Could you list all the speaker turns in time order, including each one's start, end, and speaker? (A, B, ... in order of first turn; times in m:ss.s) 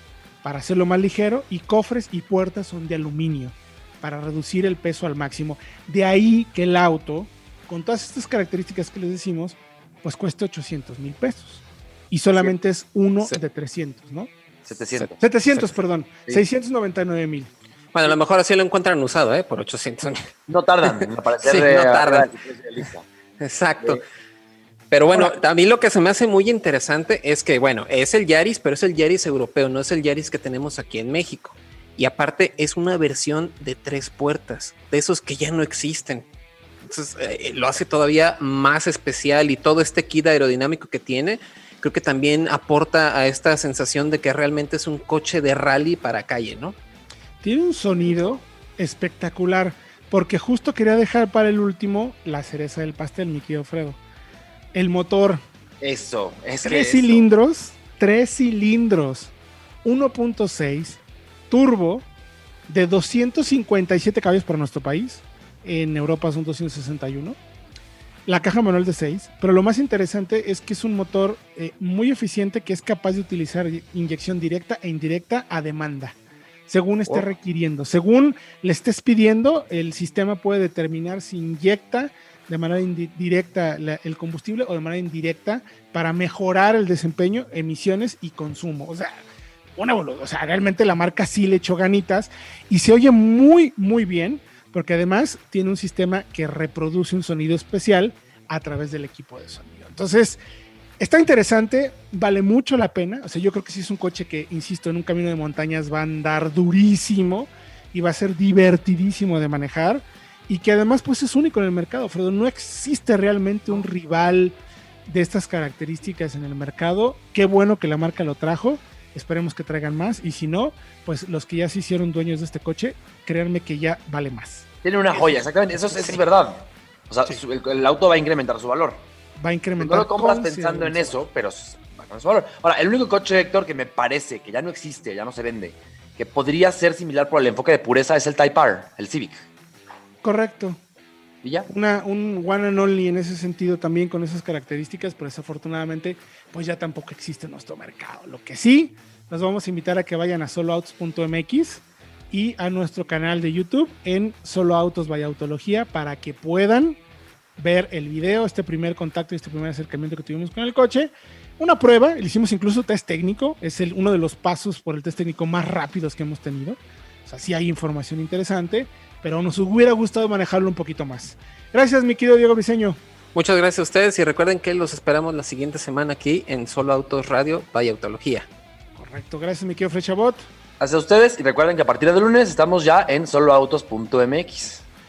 0:00.4-0:14.3 A
0:14.6-0:15.2 B
0:14.9-0:15.7 C
0:15.2-0:17.5 A
0:17.9-0:20.3 C
0:20.5-0:23.0 B
0:20.8-0:22.3 C
0:23.4-0:24.0 C
0:24.9-0:36.3 C
0:36.8-0:46.8 C
0:47.4-0:54.0 A
0:54.7-0:55.4 A
0:55.8-0:57.2 B
0:56.6-0:59.3 A
0:59.8-1:02.1 A
1:02.7-1:07.4 A
1:08.2-1:29.2 A
1:29.8-1:40.4 A
1:41.0-2:06.2 A
2:04.8-2:09.0 B
2:09.4-2:11.2 A
2:09.8-2:19.4 B
2:20.2-2:20.8 A
2:21.4-2:21.7 B
2:21.7-2:37.0 A
2:37.6-2:53.0 A
2:53.3-2:58.4 C
2:58.9-3:00.5 A
3:00.8-3:04.8 B